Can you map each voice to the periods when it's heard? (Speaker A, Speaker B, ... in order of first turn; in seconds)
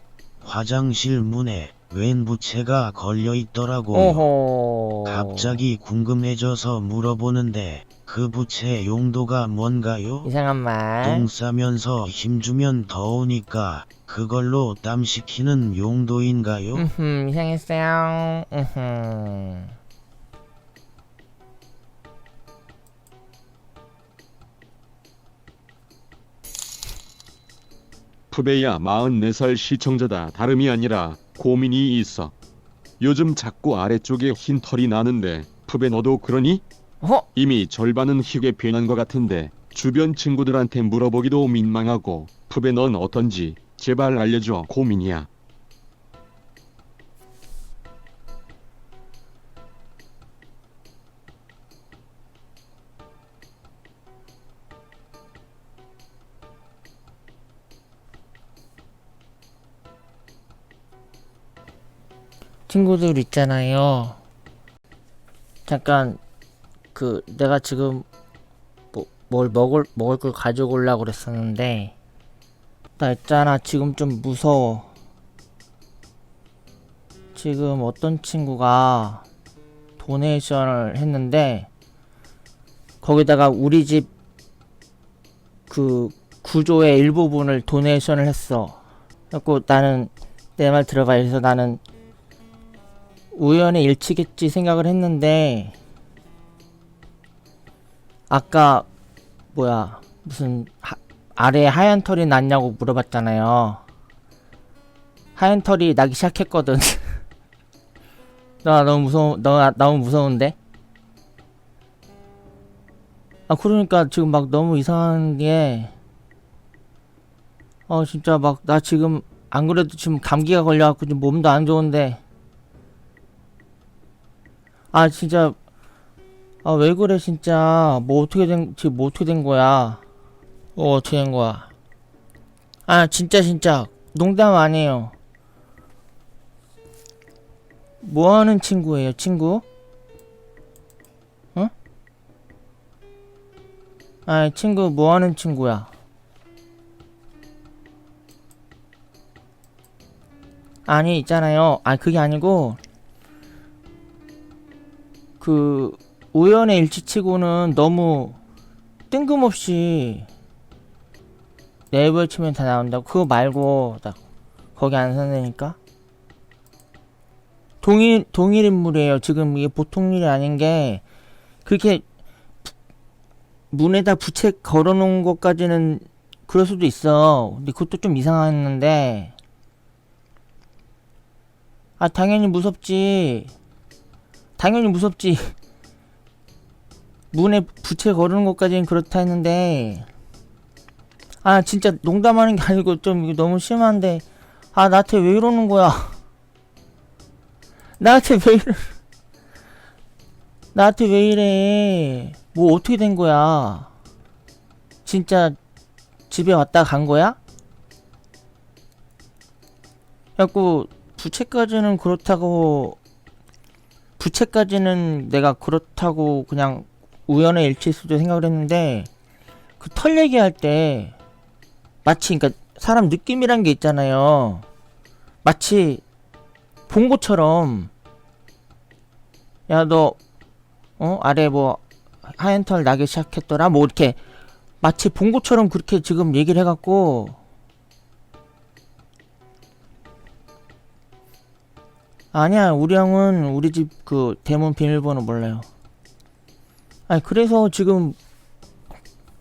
Speaker A: 0.4-4.3, 5.0-10.3, 11.0-16.8
Speaker B: 3.9-5.6, 10.2-11.3, 16.7-19.7, 37.0-37.3, 62.7-64.2, 65.7-66.2, 66.9-68.0, 68.9-71.9, 73.0-74.9, 77.3-79.2, 80.0-81.7, 83.0-84.1, 85.7-88.8, 89.3-91.8, 93.3-95.7, 98.3-98.9, 99.5-103.8, 105.3-107.2, 108.6-110.5, 113.5-115.9, 117.9-122.2, 124.9-125.5, 126.6-130.0, 130.8-131.7, 132.9-135.1, 138.0-139.6, 144.3-145.9, 150.8-152.8, 155.4-158.4, 159.1-160.3, 161.9-164.2, 164.8-165.8, 167.8-171.0, 171.7-172.0, 173.7-179.3, 182.0-183.5, 184.6-185.5, 187.3-190.1, 191.4-196.2, 198.0-198.9, 200.7-203.9, 205.0-205.6, 206.3-207.4, 210.4-213.0, 214.2-219.1, 219.8-221.1, 222.0-224.6, 225.4-226.0, 226.9-227.9, 229.7-230.2, 231.0-234.2, 234.8-237.4, 242.3-245.7, 247.1-248.2
Speaker C: 28.3-32.3, 33.0-36.6, 37.3-45.3